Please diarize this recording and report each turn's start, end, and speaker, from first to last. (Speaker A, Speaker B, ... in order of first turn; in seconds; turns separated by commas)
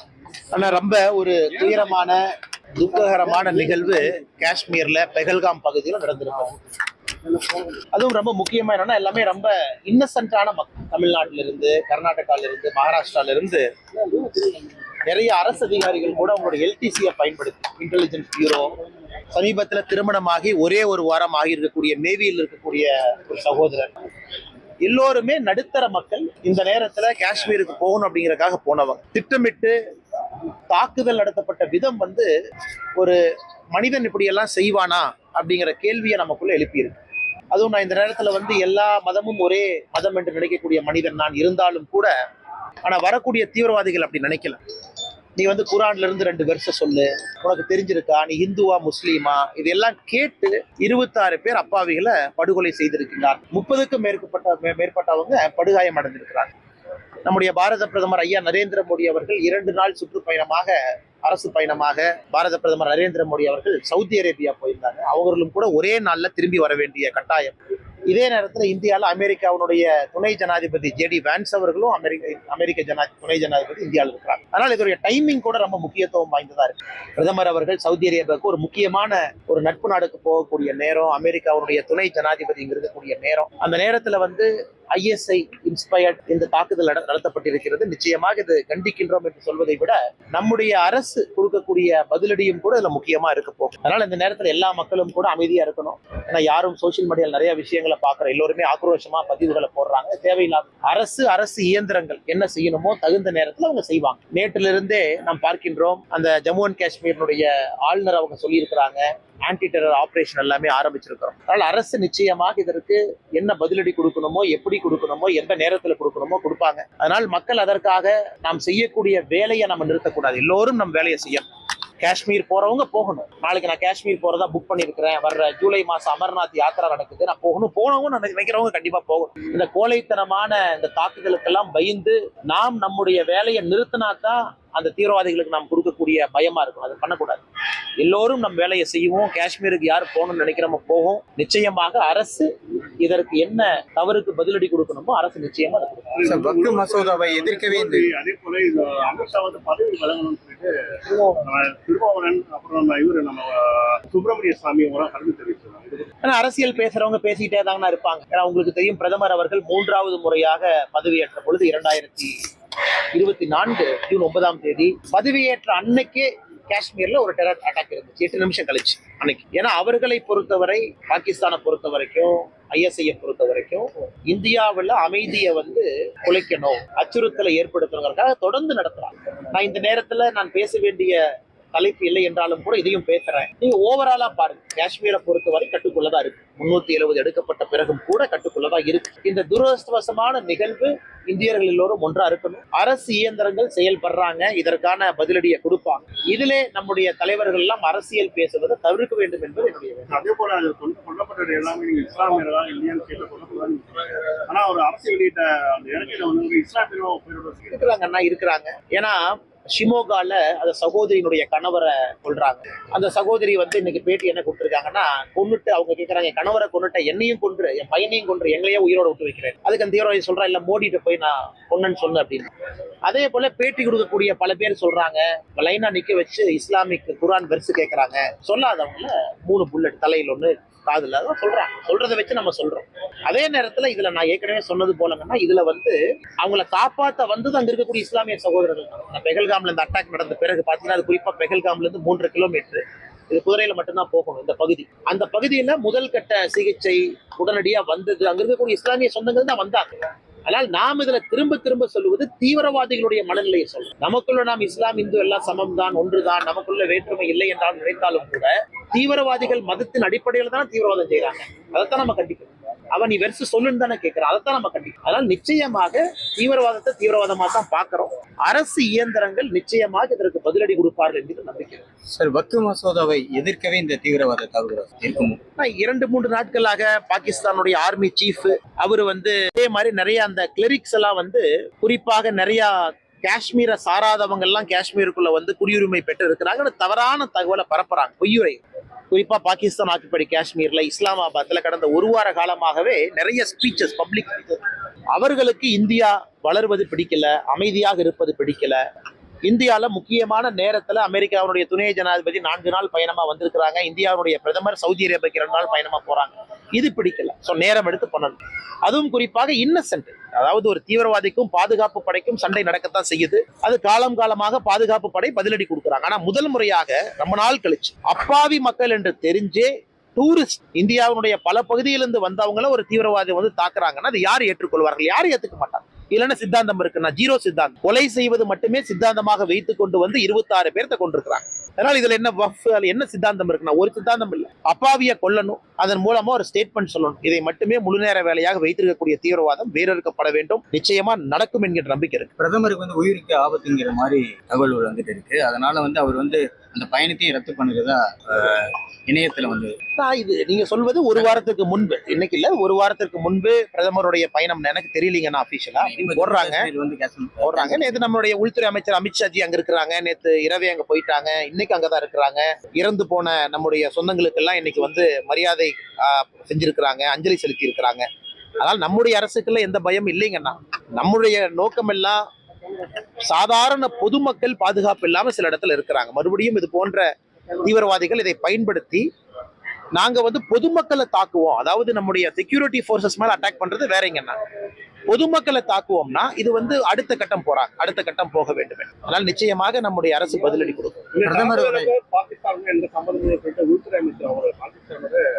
Speaker A: 0.5-2.2, Speaker A: 2.8-6.6, Speaker A: 7.3-18.7, Speaker A: 19.3-23.9, Speaker A: 24.8-29.8, Speaker A: 30.7-32.3, Speaker A: 33.7-37.0, Speaker A: 37.5-42.1, Speaker A: 42.8-44.6, Speaker A: 45.4-56.5, Speaker A: 57.2-67.5, Speaker A: 68.1-121.5, Speaker A: 122.0-137.4, Speaker A: 138.0-142.5, Speaker A: 143.0-146.1, Speaker B: 146.1-150.7, Speaker C: 146.2-148.1, Speaker A: 151.1-151.4, Speaker B: 151.4-156.0, Speaker A: 156.2-162.3, Speaker A: 163.2-181.2, Speaker A: 181.7-200.2, Speaker B: 200.1-207.9, Speaker A: 207.7-209.2, Speaker A: 209.7-222.4, Speaker A: 223.1-249.9, Speaker A: 250.5-271.8, Speaker C: 272.1-275.4, Speaker A: 275.6-282.7, Speaker A: 283.2-288.6, Speaker A: 289.1-294.6, Speaker A: 295.1-298.8, Speaker A: 299.4-342.3, Speaker C: 342.4-349.7, Speaker A: 350.0-356.7, Speaker C: 351.1-351.4, Speaker C: 355.8-358.0, Speaker A: 357.4-368.1, Speaker A: 368.6-372.2, Speaker A: 373.2-377.1, Speaker A: 377.6-379.1, Speaker A: 379.9-384.4, Speaker A: 385.1-391.1, Speaker B: 391.1-395.2, Speaker C: 391.2-391.9